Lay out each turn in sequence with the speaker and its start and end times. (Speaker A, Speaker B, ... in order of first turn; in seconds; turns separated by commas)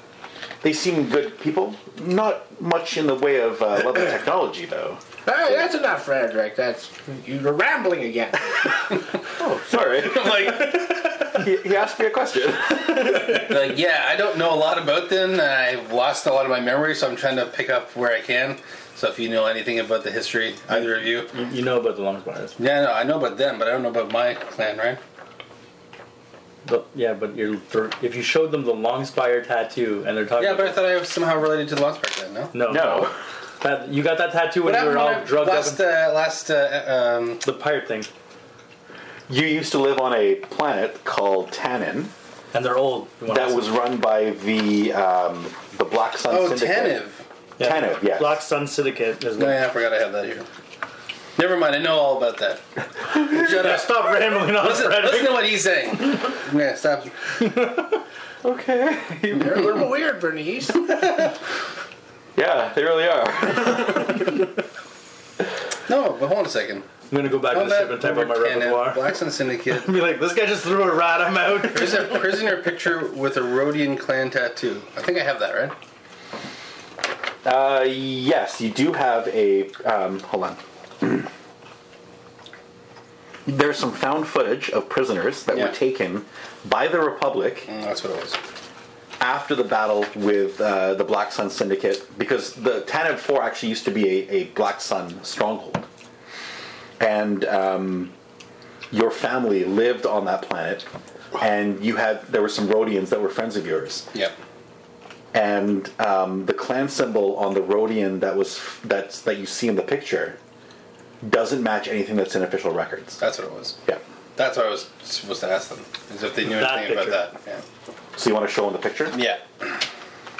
Speaker A: 0.6-5.0, Speaker B: 5.2-8.8, Speaker A: 9.4-13.5, Speaker C: 10.0-11.0, Speaker C: 13.3-21.3, Speaker D: 21.3-22.6, Speaker C: 22.6-25.0, Speaker D: 26.6-30.8, Speaker C: 30.4-32.5, Speaker D: 32.5-33.1, Speaker A: 32.6-33.1, Speaker D: 33.6-35.8, Speaker C: 34.6-37.4, Speaker D: 37.4-38.1, Speaker A: 39.3-42.1, Speaker D: 42.5-43.7, Speaker A: 43.3-47.0, Speaker C: 46.2-47.2, Speaker D: 47.6-49.6, Speaker A: 47.6-48.4, Speaker C: 49.4-50.5, Speaker C: 51.4-57.3, Speaker D: 53.1-55.5, Speaker D: 57.4-57.7, Speaker A: 58.4-59.9, Speaker B: 59.3-61.0, Speaker A: 62.3-64.4, Speaker C: 65.9-66.9, Speaker D: 67.1-69.1, Speaker C: 67.5-69.9, Speaker D: 69.7-72.2, Speaker C: 71.6-75.7, Speaker A: 77.4-81.3, Speaker A: 83.5-87.7, Speaker C: 85.5-85.7, Speaker C: 87.7-88.4, Speaker A: 89.2-95.8, Speaker A: 97.0-98.1, Speaker A: 98.9-100.8, Speaker A: 101.4-104.1, Speaker A: 105.3-110.4, Speaker A: 111.2-113.2, Speaker C: 113.2-113.8, Speaker C: 114.3-117.6, Speaker D: 116.5-117.2, Speaker A: 118.2-119.2, Speaker C: 119.1-119.4